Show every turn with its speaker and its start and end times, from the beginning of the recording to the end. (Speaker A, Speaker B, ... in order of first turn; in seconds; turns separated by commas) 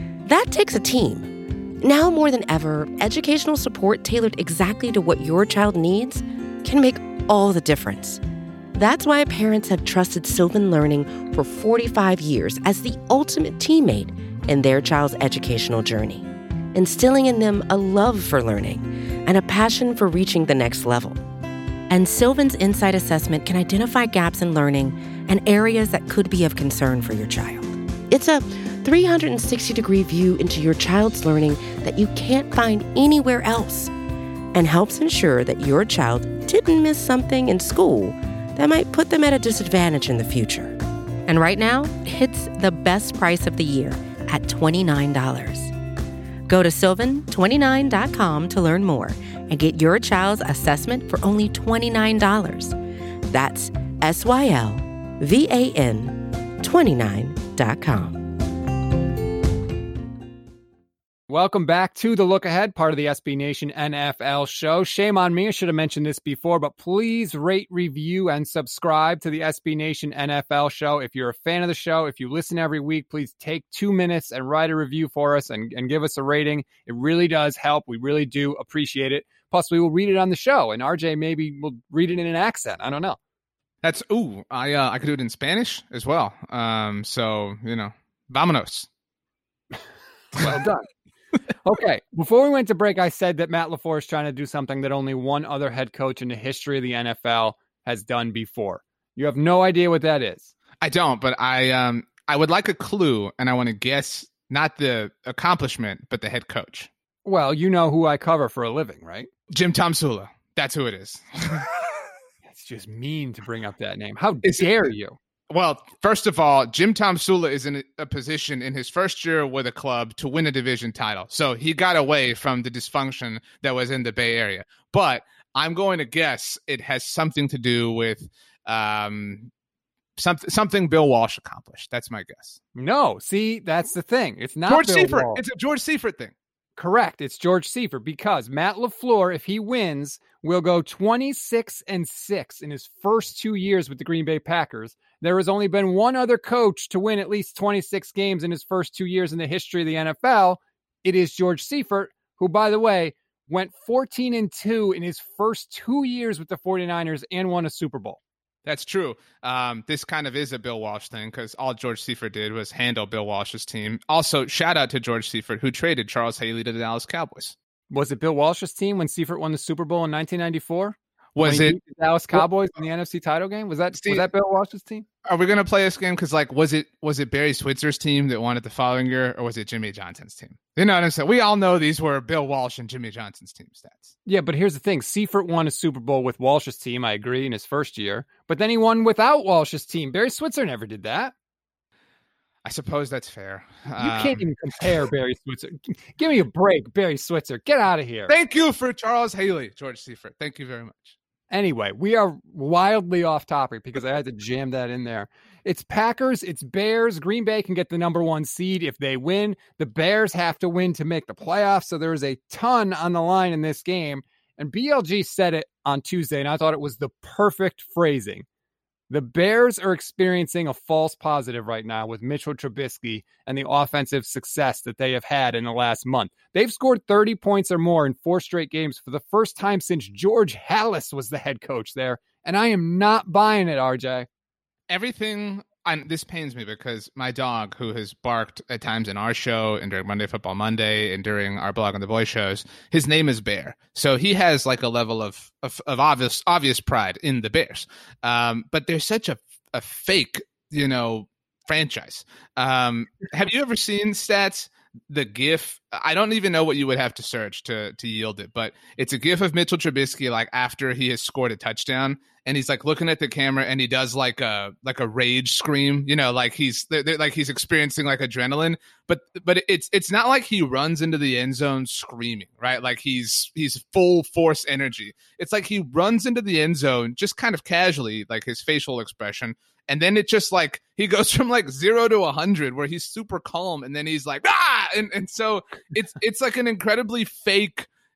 Speaker A: 0.2-1.3, Speaker A: 1.8-8.2, Speaker A: 8.7-21.2, Speaker A: 21.9-33.9, Speaker A: 34.5-45.7, Speaker A: 46.5-52.8, Speaker A: 53.3-58.3, Speaker B: 61.3-83.2, Speaker C: 83.8-88.9, Speaker B: 90.3-90.9, Speaker B: 91.6-100.5, Speaker C: 100.8-106.9, Speaker B: 107.2-109.3, Speaker C: 109.5-111.7, Speaker B: 112.5-115.2, Speaker C: 114.4-114.7, Speaker C: 115.5-129.5, Speaker C: 130.2-132.6, Speaker B: 132.7-135.4, Speaker C: 134.7-136.3, Speaker B: 136.8-158.2, Speaker C: 158.6-167.6, Speaker B: 167.9-175.0, Speaker C: 171.3-171.8, Speaker C: 173.9-174.3, Speaker C: 175.2-184.1, Speaker B: 184.2-191.3, Speaker C: 192.6-194.9, Speaker B: 194.0-198.3, Speaker C: 198.3-201.2, Speaker B: 201.5-218.4, Speaker B: 219.1-234.3, Speaker C: 234.9-287.9